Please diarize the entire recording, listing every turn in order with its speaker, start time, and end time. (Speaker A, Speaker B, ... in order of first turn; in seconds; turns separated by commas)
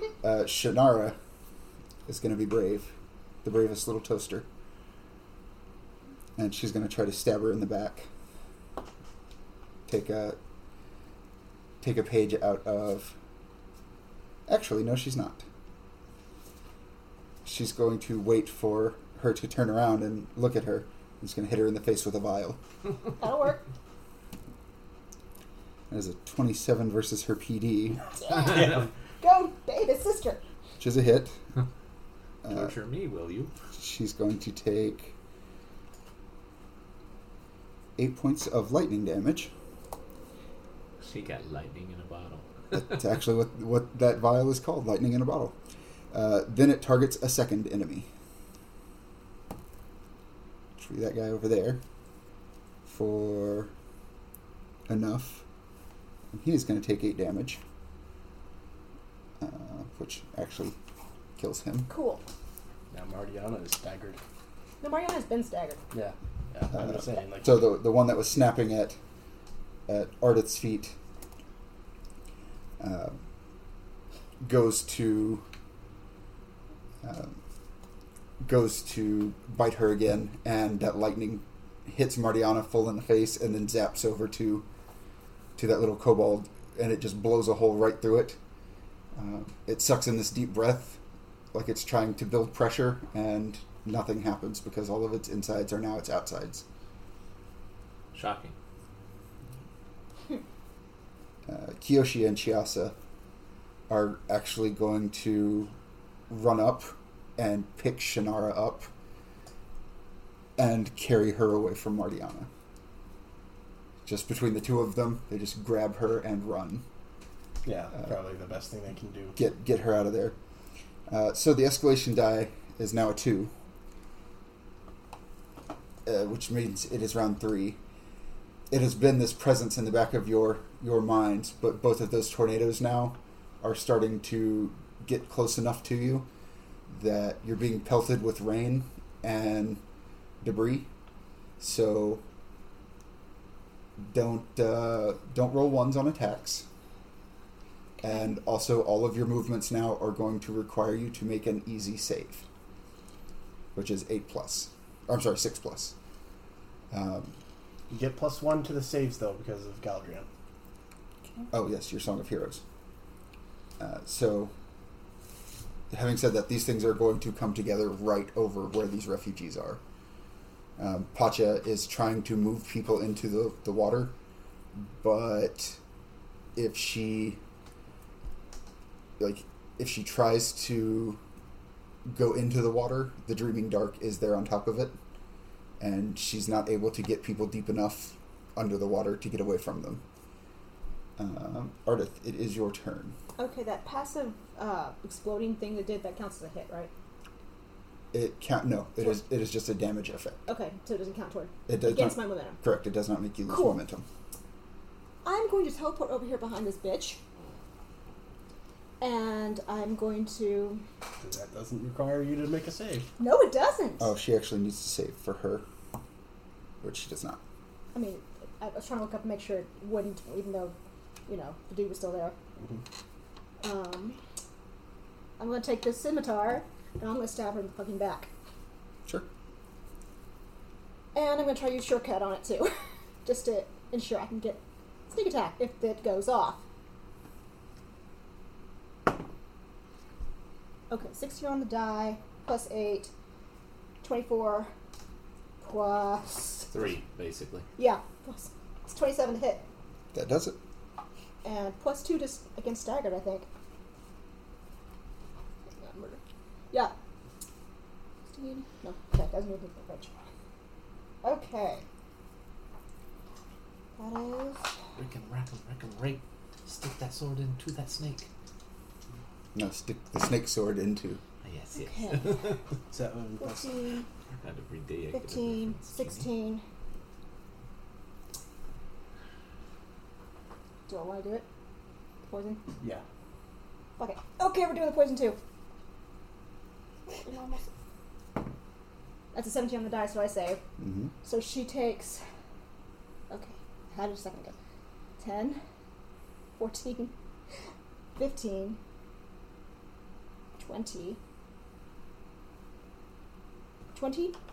Speaker A: 0.2-1.2, Speaker A: 2.1-4.5, Speaker A: 6.4-8.1, Speaker A: 9.9-10.4, Speaker A: 11.8-13.2, Speaker A: 14.5-15.5, Speaker A: 17.4-22.6, Speaker B: 23.2-23.7, Speaker A: 25.9-28.0, Speaker B: 28.2-30.4, Speaker C: 28.4-28.9, Speaker A: 30.8-31.4, Speaker A: 32.4-32.7, Speaker D: 32.5-33.5, Speaker A: 33.7-35.1, Speaker A: 38.0-39.5, Speaker D: 41.0-43.0, Speaker A: 42.7-45.6, Speaker A: 46.1-48.1, Speaker A: 50.8-51.8, Speaker A: 52.9-53.7, Speaker A: 54.9-55.4, Speaker A: 56.3-57.6, Speaker A: 59.4-60.8, Speaker A: 61.4-61.9, Speaker B: 61.9-62.2, Speaker C: 62.9-64.2, Speaker B: 64.8-65.8, Speaker C: 65.9-67.6, Speaker A: 66.7-69.0, Speaker A: 69.9-71.0, Speaker A: 72.8-73.2, Speaker A: 74.4-75.5, Speaker A: 77.0-77.4, Speaker A: 78.4-84.7, Speaker A: 85.6-88.4, Speaker A: 89.2-91.0, Speaker A: 91.5-96.7, Speaker D: 98.1-98.5, Speaker A: 101.5-103.0, Speaker A: 103.9-105.7, Speaker A: 106.3-108.9, Speaker A: 110.6-112.5, Speaker A: 114.0-116.8, Speaker C: 117.7-119.4, Speaker A: 119.3-120.4, Speaker A: 121.1-123.5, Speaker A: 126.1-127.8, Speaker A: 128.7-136.3, Speaker A: 136.9-139.8, Speaker A: 140.4-140.9, Speaker A: 141.6-142.2, Speaker A: 144.0-146.7, Speaker A: 148.0-152.5, Speaker A: 153.8-155.9, Speaker A: 156.9-157.4, Speaker C: 157.9-160.3, Speaker A: 161.5-162.6, Speaker A: 163.8-164.5, Speaker A: 165.9-169.8, Speaker A: 170.8-174.1, Speaker A: 174.8-175.8, Speaker A: 176.6-177.4, Speaker A: 179.2-181.2, Speaker A: 182.1-185.0, Speaker A: 185.8-190.0, Speaker A: 191.2-193.2, Speaker B: 193.4-196.9, Speaker A: 198.1-200.4, Speaker B: 200.5-202.6, Speaker A: 201.7-204.1, Speaker B: 203.5-203.8, Speaker B: 205.2-207.2, Speaker B: 209.0-210.8, Speaker C: 211.2-213.1, Speaker B: 213.2-214.1, Speaker A: 214.0-215.7, Speaker A: 216.8-217.4, Speaker B: 217.9-220.8, Speaker B: 221.3-222.4, Speaker B: 223.6-224.2, Speaker B: 225.4-228.3, Speaker B: 231.1-236.6, Speaker B: 240.9-243.1, Speaker B: 244.0-244.7, Speaker B: 245.6-246.7, Speaker D: 246.7-247.7, Speaker B: 247.8-249.6, Speaker A: 250.1-250.6, Speaker B: 251.4-253.5, Speaker B: 255.7-256.9, Speaker B: 258.3-260.2, Speaker B: 261.2-261.8, Speaker B: 264.0-264.8, Speaker D: 265.0-268.3, Speaker A: 269.6-271.2, Speaker D: 271.4-272.6, Speaker B: 271.7-272.6, Speaker C: 272.9-273.7, Speaker B: 273.4-274.1, Speaker D: 274.4-276.3, Speaker B: 275.1-276.6, Speaker B: 280.9-281.5, Speaker B: 282.3-282.6, Speaker B: 284.0-285.4, Speaker B: 287.1-287.7, Speaker B: 289.3-290.6, Speaker A: 290.8-291.1, Speaker B: 291.2-292.2, Speaker B: 293.3-294.6, Speaker B: 295.2-295.6, Speaker B: 296.6-297.1, Speaker B: 298.2-298.8, Speaker B: 300.6-301.2, Speaker B: 303.9-304.4